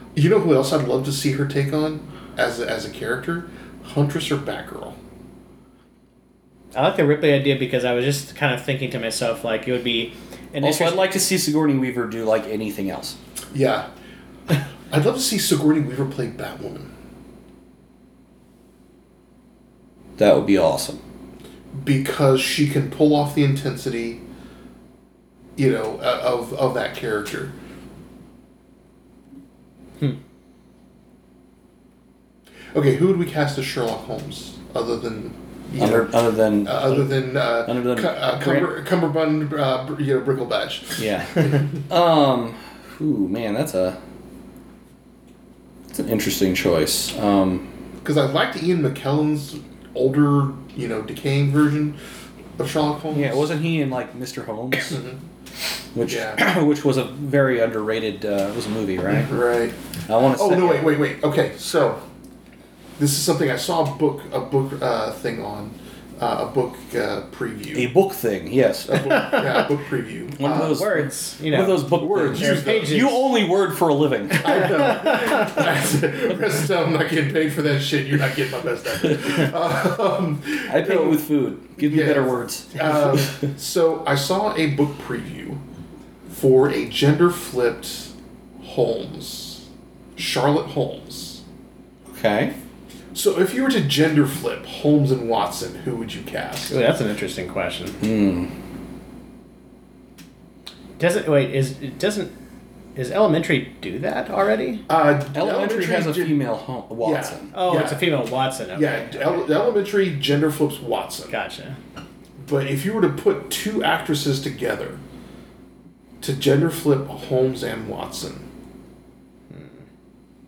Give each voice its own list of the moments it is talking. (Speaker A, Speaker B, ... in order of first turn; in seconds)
Speaker A: 0.1-5.0, 13.5-13.9, 14.9-16.9, 21.7-24.2, 25.6-27.5, 32.7-41.8, 48.0-52.0, 52.6-53.5, 54.8-55.2, 56.1-56.4, 59.1-62.0, 63.0-67.9, 68.9-70.8, 72.0-73.0, 74.4-81.2, 81.8-85.6, 86.3-91.4, 93.1-96.8, 104.9-106.4, 107.0-108.0, 108.7-111.3, 112.4-115.0, 116.2-118.5
Speaker B: 6.7-11.1, 69.1-69.4, 70.5-73.3, 74.3-75.6, 96.7-98.0, 101.0-102.3, 103.0-104.8, 107.5-109.4, 111.3-111.8, 119.5-119.8
Speaker C: 10.6-13.2, 20.2-21.0, 35.8-37.1, 37.6-38.7, 41.0-44.0, 45.9-47.7, 53.1-55.0, 55.9-59.4, 60.1-61.0, 67.7-69.2, 70.3-74.8, 80.7-83.4, 92.1-92.5, 98.0-98.5, 105.3-107.5